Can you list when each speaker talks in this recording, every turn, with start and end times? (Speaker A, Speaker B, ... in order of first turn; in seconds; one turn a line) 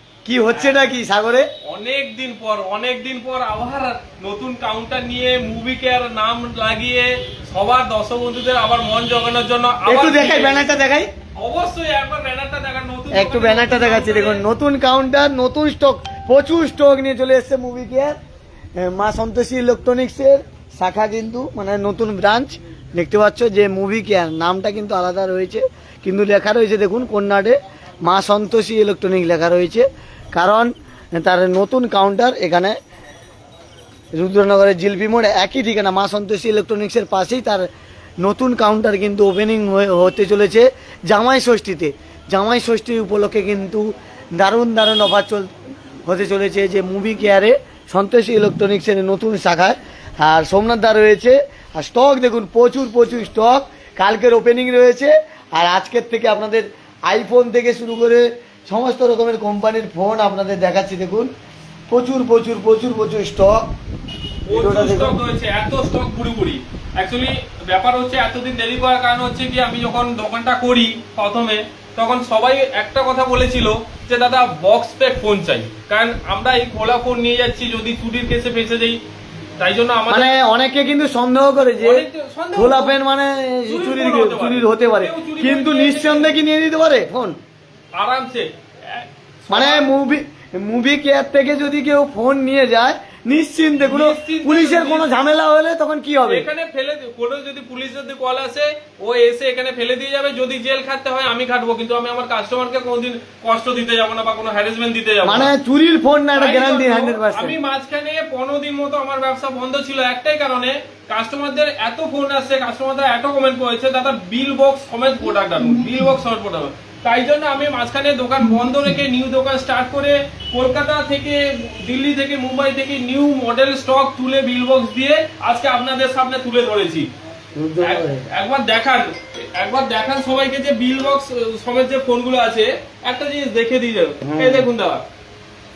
Speaker A: 0.2-1.4
Speaker B: 0.5-0.9
Speaker B: 1.6-10.7
Speaker A: 9.8-11.1
Speaker B: 11.3-14.4
Speaker A: 13.1-18.1
Speaker A: 18.8-32.8
Speaker A: 34.1-37.7
Speaker A: 38.2-45.5
Speaker A: 46.0-61.3
Speaker A: 61.9-63.6
Speaker B: 64.5-79.0
Speaker A: 64.5-65.2
Speaker B: 79.6-80.3
Speaker A: 80.1-87.3
Speaker B: 81.8-83.0
Speaker B: 83.7-86.4
Speaker B: 87.9-89.9
Speaker A: 89.5-96.5
Speaker B: 93.8-95.1
Speaker B: 96.2-105.5
Speaker A: 105.2-107.6
Speaker B: 106.3-127.1
Speaker A: 127.5-128.2
Speaker B: 127.8-135.0
Speaker A: 134.2-134.7